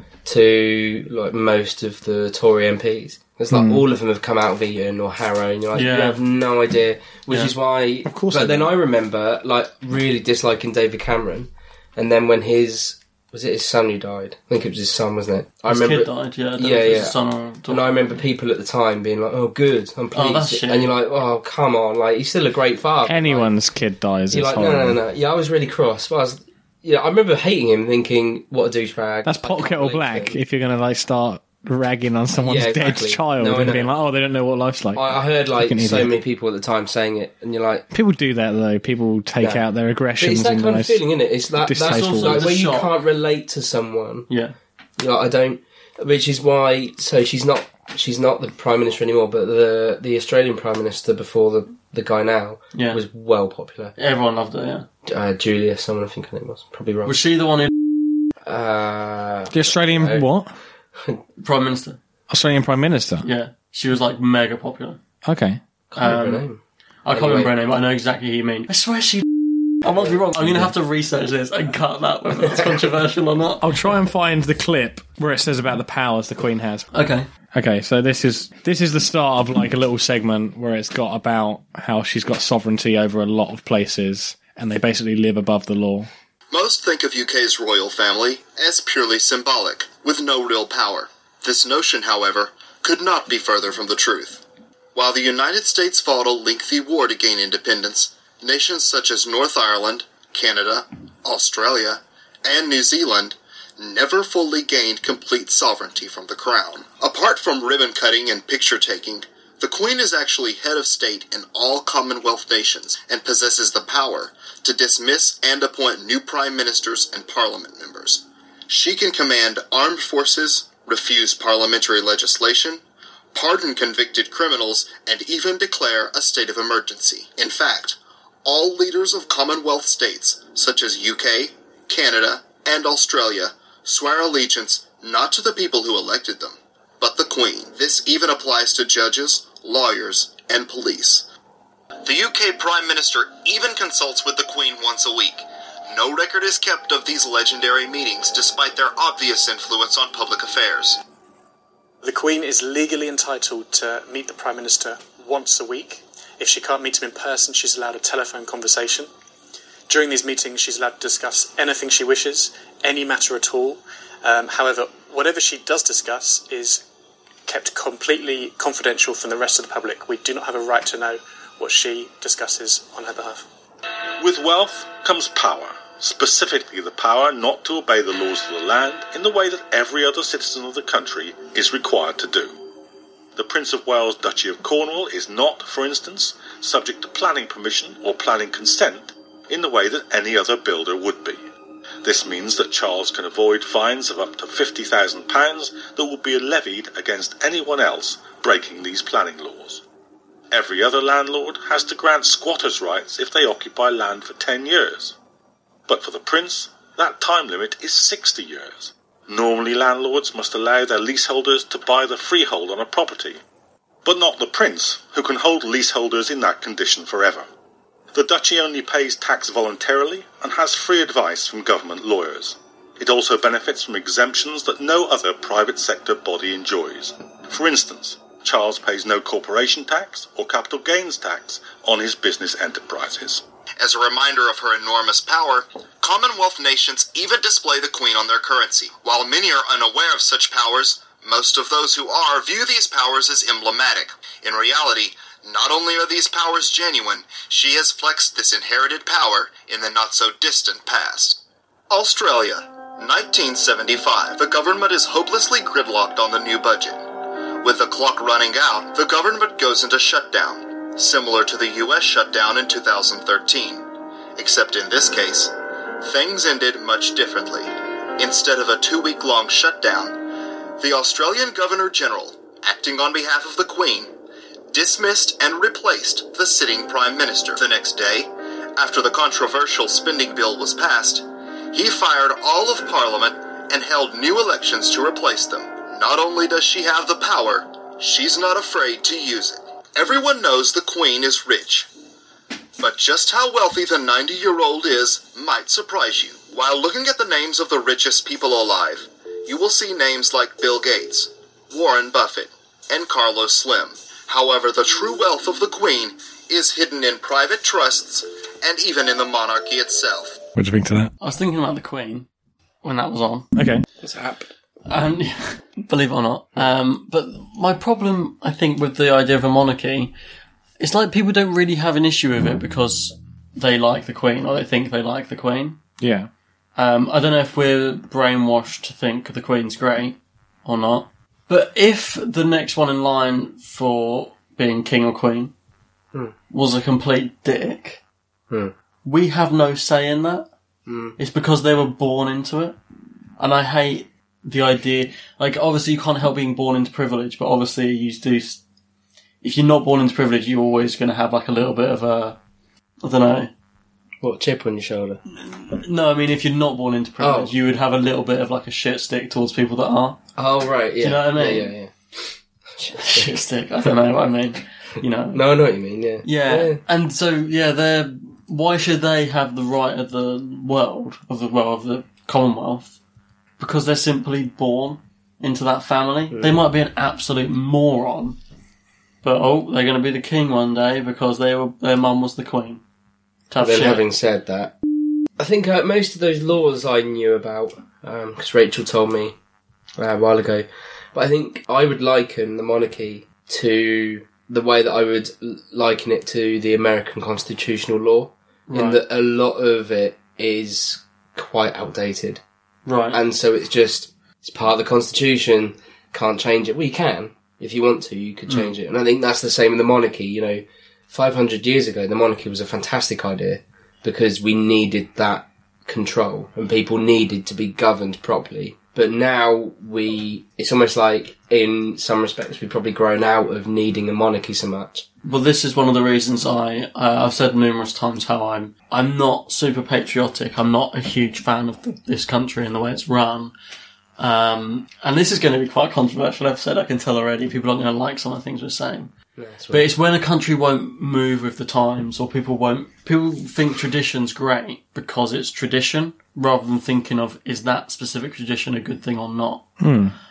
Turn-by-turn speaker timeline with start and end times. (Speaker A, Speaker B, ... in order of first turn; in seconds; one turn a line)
Speaker A: 0.2-17.1
Speaker B: 3.5-3.8
Speaker C: 5.8-6.2
Speaker B: 8.1-8.7
Speaker C: 15.7-17.8
Speaker A: 17.7-23.5
Speaker C: 20.1-20.9
Speaker B: 23.1-25.0
Speaker A: 24.3-30.4
Speaker B: 29.2-36.1
Speaker A: 32.4-33.9
Speaker A: 35.0-37.9
Speaker B: 37.9-41.0
Speaker A: 40.2-44.3
Speaker B: 41.6-42.5
Speaker C: 41.8-42.9
Speaker C: 44.3-44.5
Speaker A: 45.0-54.0
Speaker C: 52.7-53.0
Speaker C: 54.0-54.9
Speaker A: 55.1-57.1
Speaker C: 57.1-57.7
Speaker A: 58.5-60.3
Speaker B: 59.5-60.5
Speaker C: 61.4-62.0
Speaker B: 62.3-63.3
Speaker C: 63.2-65.0
Speaker B: 65.2-65.6
Speaker A: 65.9-67.5
Speaker C: 66.0-66.4
Speaker C: 67.0-69.3
Speaker C: 69.8-73.6
Speaker B: 73.6-76.9
Speaker C: 76.9-77.3
Speaker B: 77.5-86.1
Speaker D: 86.5-94.4
Speaker D: 95.0-122.8
Speaker D: 123.3-141.3
Speaker D: 142.0-151.0
Speaker E: 152.0-159.1
Speaker E: 159.9-166.8
Speaker E: 167.5-173.4
Speaker F: 174.2-182.6
Speaker F: 183.4-191.4
Speaker F: 192.0-199.8
Speaker F: 200.5-205.2
Speaker F: 205.9-213.4
Speaker F: 214.1-217.5
Speaker F: 218.1-233.4
Speaker D: 233.8-257.1
Speaker D: 257.6-274.1
Speaker D: 274.7-291.9
Speaker D: 292.8-310.4
Speaker B: 310.6-311.1
Speaker C: 311.2-312.3
Speaker C: 312.8-313.5
Speaker B: 313.6-313.9
Speaker A: 314.0-314.4
Speaker C: 314.9-320.1
Speaker C: 320.8-325.8
Speaker B: 326.0-326.3
Speaker C: 326.8-335.5
Speaker C: 336.5-338.0
Speaker C: 339.1-340.5
Speaker A: 340.9-341.2
Speaker C: 341.2-342.8
Speaker C: 343.4-348.6
Speaker C: 349.4-352.4
Speaker C: 353.0-353.5
Speaker A: 354.2-355.2
Speaker C: 355.4-360.2
Speaker A: 357.2-357.5
Speaker A: 360.4-361.9
Speaker C: 361.0-361.7
Speaker A: 362.8-363.4
Speaker C: 363.0-365.4
Speaker A: 365.3-366.8
Speaker C: 366.2-372.9
Speaker C: 373.6-378.4
Speaker A: 376.3-376.6
Speaker C: 379.2-382.8
Speaker C: 383.5-384.0
Speaker A: 383.6-384.8
Speaker A: 385.4-389.4
Speaker A: 390.0-402.4
Speaker C: 398.7-399.0
Speaker C: 402.9-403.2
Speaker A: 403.1-425.1
Speaker C: 425.2-433.5
Speaker C: 434.2-439.1
Speaker A: 439.4-439.9
Speaker C: 439.7-449.7
Speaker B: 449.8-450.1